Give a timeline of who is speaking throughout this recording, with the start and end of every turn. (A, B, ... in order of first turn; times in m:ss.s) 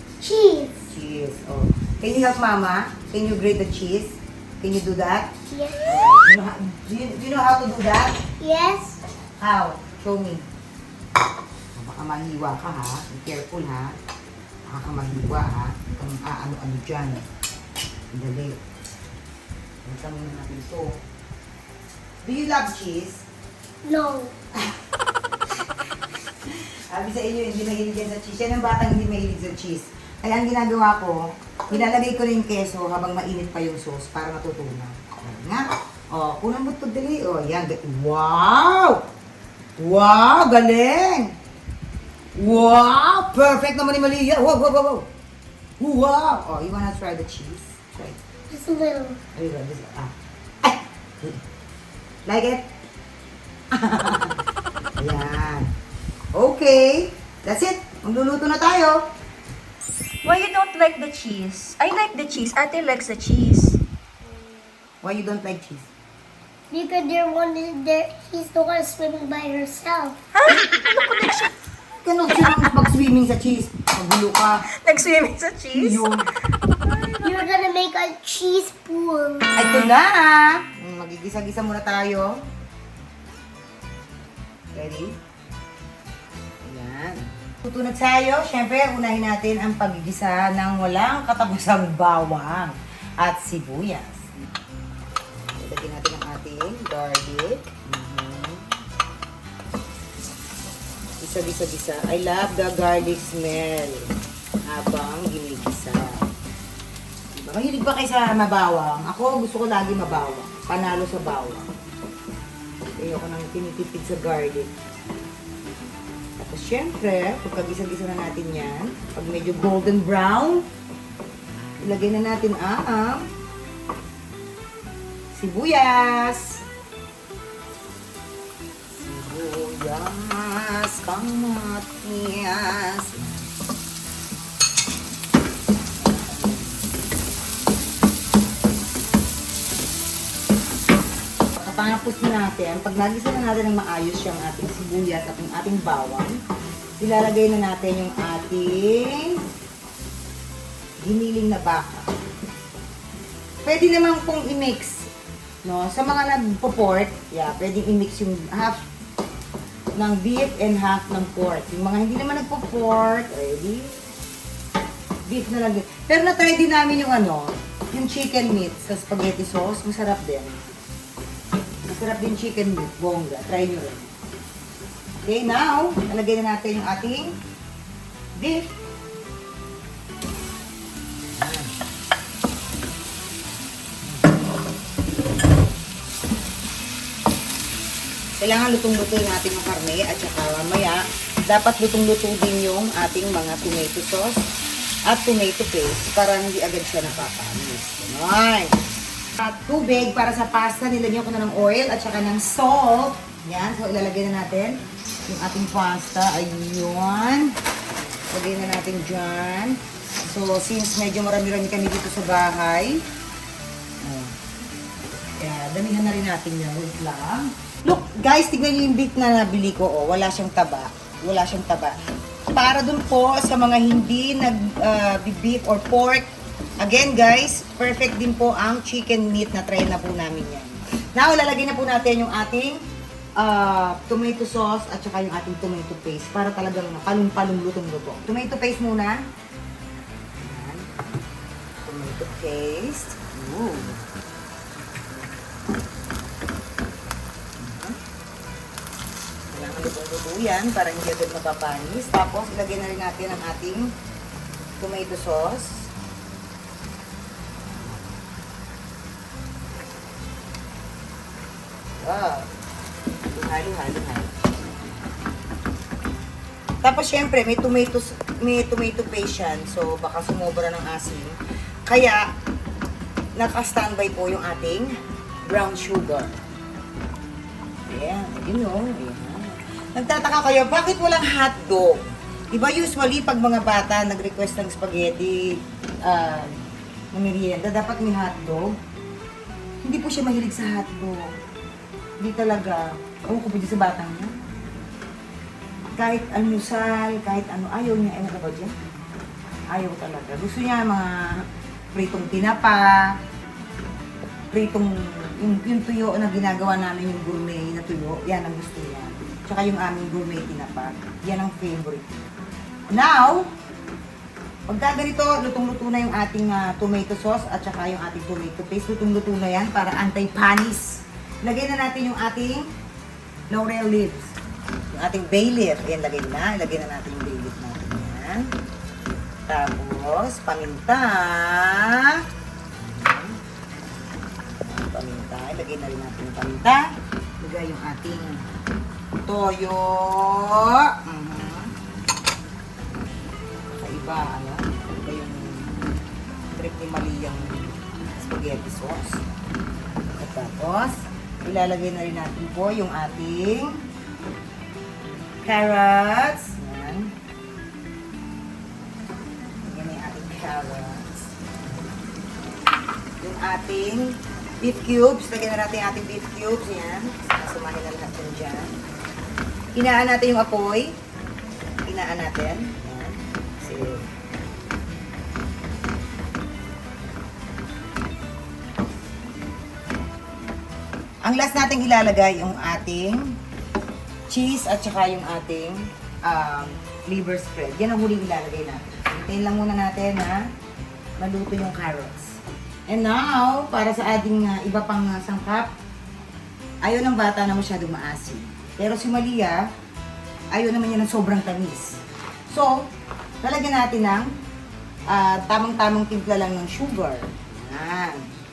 0:00.2-0:00.9 A
0:00.9-0:05.3 B
0:05.5-0:05.9 A
0:05.8-0:08.2 B
0:08.4-0:09.0 A
0:09.4-0:10.4 B
0:11.7-0:14.0 B
0:14.7-0:17.2 B
0:18.1-0:18.6 B
0:19.8-0:21.0 B
0:22.2-0:23.2 B
0:23.8-0:24.3 A
0:26.4-0:39.0 B
0:39.8-0:41.4 B
0:42.3-0:45.1 B
0:45.8-0:48.2 B
0:48.5-0:49.2 A
0:49.3-0:51.4 B
0:52.2-0:52.6 B
0:53.7-0:54.4 B
0:55.0-0:55.7 B
0:56.3-0:59.1 B
1:00.2-1:03.8 C
1:05.0-1:05.9 B
1:06.7-1:10.2 A
1:10.3-1:11.5 C
1:12.0-1:14.7 B
1:14.7-1:16.0 C
1:15.7-1:16.3 B
1:16.8-1:17.2 C
1:17.2-1:19.5 A
1:19.5-1:22.4 B
1:24.7-1:25.2 B
1:26.6-1:34.3 B
1:35.3-1:38.7 B
1:41.2-1:44.1 B
1:44.6-1:46.2 B
1:47.3-1:51.7 B
1:53.0-1:54.7 B
1:56.4-2:00.6 B
2:01.8-2:03.3 B
2:05.3-2:06.6 B
2:08.9-2:13.5 B
2:16.0-2:16.8 B
2:21.5-2:26.4 B
2:27.0-2:29.4 B
2:31.0-2:32.1 B
2:33.6-2:35.1 B
2:35.6-2:38.8 B
2:40.0-2:44.0 B
2:45.2-2:50.7 B
2:51.8-2:54.1 B
2:55.2-2:57.4 B
2:58.4-2:58.7 B
3:01.4-3:01.7 B
3:08.4-3:14.5 B
3:15.1-3:18.8 B
3:19.4-3:27.5 B
3:28.3-3:33.0 B
3:34.0-3:34.3 B
3:35.4-3:42.0 B
3:42.5-3:46.3 B
3:46.8-3:52.8 B
3:53.4-3:59.2 B
4:00.4-4:00.9 B
4:01.8-4:04.0 B
4:07.6-4:08.0 B
4:09.5-4:13.9 B
4:14.8-4:15.9 B
4:22.0-4:22.5 B
4:23.3-4:24.3 B
4:26.8-4:32.3 B
4:33.4-4:34.9 B
4:35.4-4:36.4 B
4:37.9-4:46.5 B
4:47.1-4:48.8 B
4:49.8-4:51.4 B
4:52.2-4:54.4 B
4:55.9-4:58.8 B
4:59.7-5:03.2 B
5:04.5-5:12.2 B
5:12.9-5:13.5 B
5:14.7-5:22.7 B
5:23.5-5:24.3 B
5:24.9-5:28.5 B
5:29.5-5:32.2 B
5:32.8-5:33.4 B
5:34.5-5:38.5 B
5:39.2-5:41.7 B
5:43.7-5:45.8 B
5:46.5-5:49.2 B
5:50.1-5:53.8 B
5:55.4-5:57.1 B
5:59.6-6:01.2 B
6:03.2-6:08.7 B
6:09.7-6:10.9 B
6:11.9-6:14.1 B
6:21.2-6:23.4 B
6:24.3-6:30.4 B
6:31.2-6:35.7 B
6:36.8-6:39.6 B
6:40.5-6:42.8 B
6:43.4-6:44.3 B
6:45.1-6:48.2 B